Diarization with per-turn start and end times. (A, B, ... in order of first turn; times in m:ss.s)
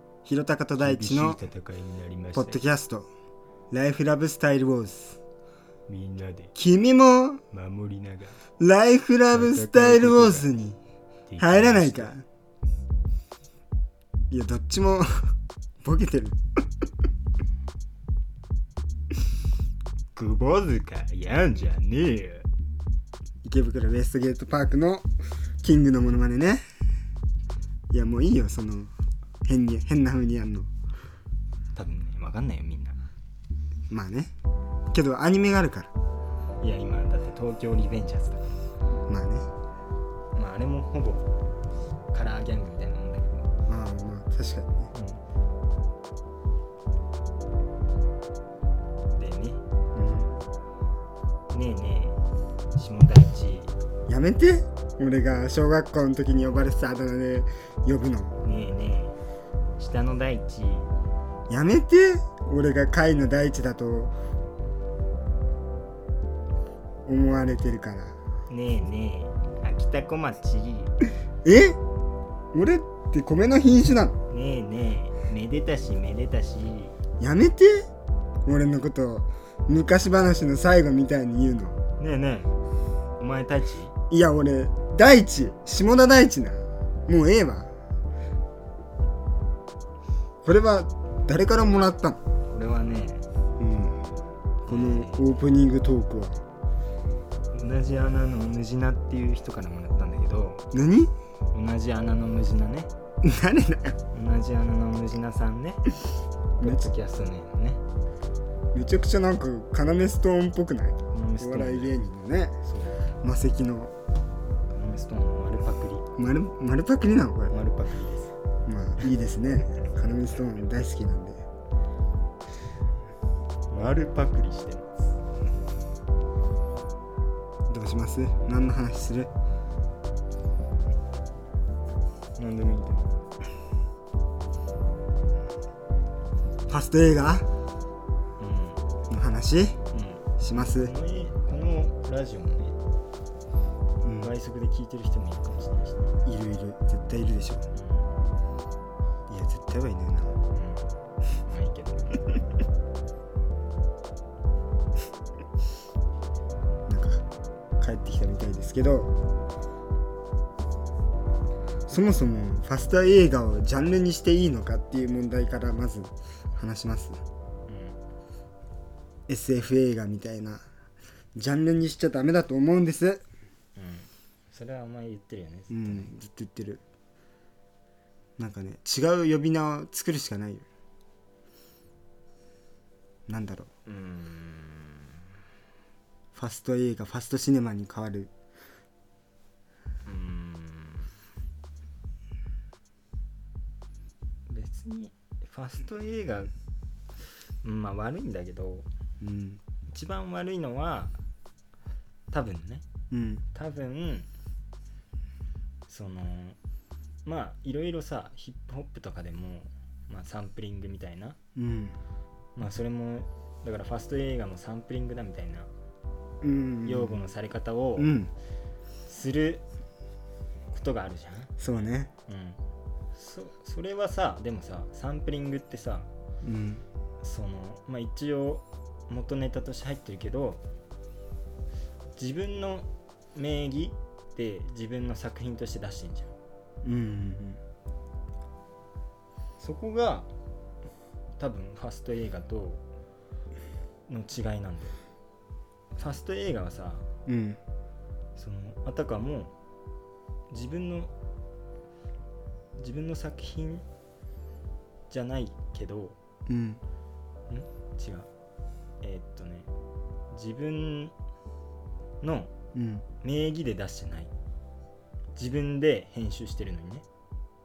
0:00.2-0:01.4 A
0:00.8-0:02.6 B
0:02.3-0:03.1 A
0:03.7-0:05.2 A
0:05.9-0:06.5 B
0:06.5-0:07.4 A
0:07.5-0:08.4 B
0:08.6-0:10.8 A
0:09.3-0:10.5 B
0:11.3-0:12.2 B
0:11.4-0:12.2 A
0:14.3-0:15.3 A
0:15.8-0:16.4 A
0:20.1-0:22.5 B
0:23.4-0:25.1 A
0:25.6-0:26.6 A
0:27.9-0:28.9 A
0:29.4-0:30.7 A
0:31.7-0:33.0 B
0:33.9-0:34.3 A
0:34.9-0:35.9 A
0:36.6-0:38.6 B
0:39.1-0:39.5 A
0:40.3-0:41.3 B
0:42.1-0:43.5 B
0:43.7-0:44.9 A
0:44.9-0:45.2 B
0:49.1-0:49.6 B
0:49.9-0:50.4 A
0:51.5-0:52.2 B
0:52.8-0:53.7 B
0:54.1-0:58.4 A
0:58.4-0:59.2 B
0:59.8-1:00.9 B
1:01.5-1:04.1 A
1:07.0-1:08.2 A
1:08.5-1:10.9 B
1:11.4-1:11.8 A
1:12.5-1:14.2 A
1:14.3-1:16.9 B
1:17.2-1:17.9 A
1:18.4-1:21.8 A
1:22.0-1:22.5 B
1:23.2-1:23.9 B
1:24.1-1:27.7 A
1:30.4-1:32.2 A
1:32.5-1:33.2 B
1:33.6-1:34.0 A
1:34.6-1:36.4 A
1:34.7-1:35.3 B
1:37.5-1:40.6 B
1:40.7-1:41.1 A
1:41.5-1:42.9 B
1:43.2-1:44.0 A
1:44.1-1:45.8 B
1:46.6-1:47.8 B
1:46.6-1:46.9 A
1:48.7-1:52.6 A
1:51.1-1:52.0 B
1:52.6-1:53.0 B
1:53.2-1:53.9 A
1:54.7-1:56.0 B
1:56.2-1:57.5 A
1:57.5-1:58.3 B
1:58.6-2:01.4 A
2:03.7-2:05.1 B
2:07.7-2:09.3 A
2:12.4-2:13.0 B
2:16.7-2:17.5 A
2:18.4-2:18.8 B
2:19.1-2:19.8 A
2:19.9-2:22.8 B
2:20.4-2:20.9 A
2:24.0-2:24.3 A
2:24.2-2:26.1 B
2:26.2-2:27.7 A
2:27.7-2:28.1 B
2:29.3-2:30.3 A
2:30.5-2:30.8 B
2:31.5-2:32.2 B
2:36.9-2:37.2 A
2:37.8-2:39.1 A
2:41.9-2:47.2 A
2:47.7-2:48.0 B
2:49.3-2:50.6 A
2:51.4-2:53.2 A
2:53.8-2:56.1 B
2:55.7-2:56.8 A
2:58.4-3:00.6 A
3:03.3-3:03.7 A
3:03.8-3:05.2 B
3:06.3-3:08.3 A
3:10.0-3:11.1 B
3:14.5-3:16.5 B
3:17.6-3:18.9 B
3:19.2-3:19.6 A
3:19.9-3:21.2 B
3:22.3-3:22.8 B
3:23.1-3:23.4 A
3:23.5-3:24.3 B
3:25.9-3:26.6 B
3:27.2-3:31.4 B
3:31.5-3:32.0 A
3:32.6-3:35.7 B
3:36.4-3:37.2 A
3:36.8-3:38.1 B
3:38.0-3:38.3 A
3:39.0-3:39.6 B
3:40.7-3:41.5 B
3:41.6-3:42.1 A
3:42.3-3:42.6 B
3:43.1-3:46.1 B
3:46.4-3:46.8 A
3:47.2-3:50.6 B
3:52.2-3:56.3 B
3:56.8-3:57.6 A
3:59.6-4:00.3 B
4:01.4-4:02.8 B
4:04.1-4:05.0 B
4:06.0-4:07.1 B
4:07.2-4:07.6 A
4:08.4-4:09.5 B
4:10.5-4:11.1 B
4:12.8-4:13.8 B
4:15.1-4:16.2 B
4:16.5-4:16.8 A
4:17.5-4:18.3 B
4:19.0-4:19.7 B
4:20.3-4:21.1 B
4:22.2-4:22.5 B
4:22.7-4:23.0 A
4:23.2-4:24.3 B
4:25.4-4:27.0 B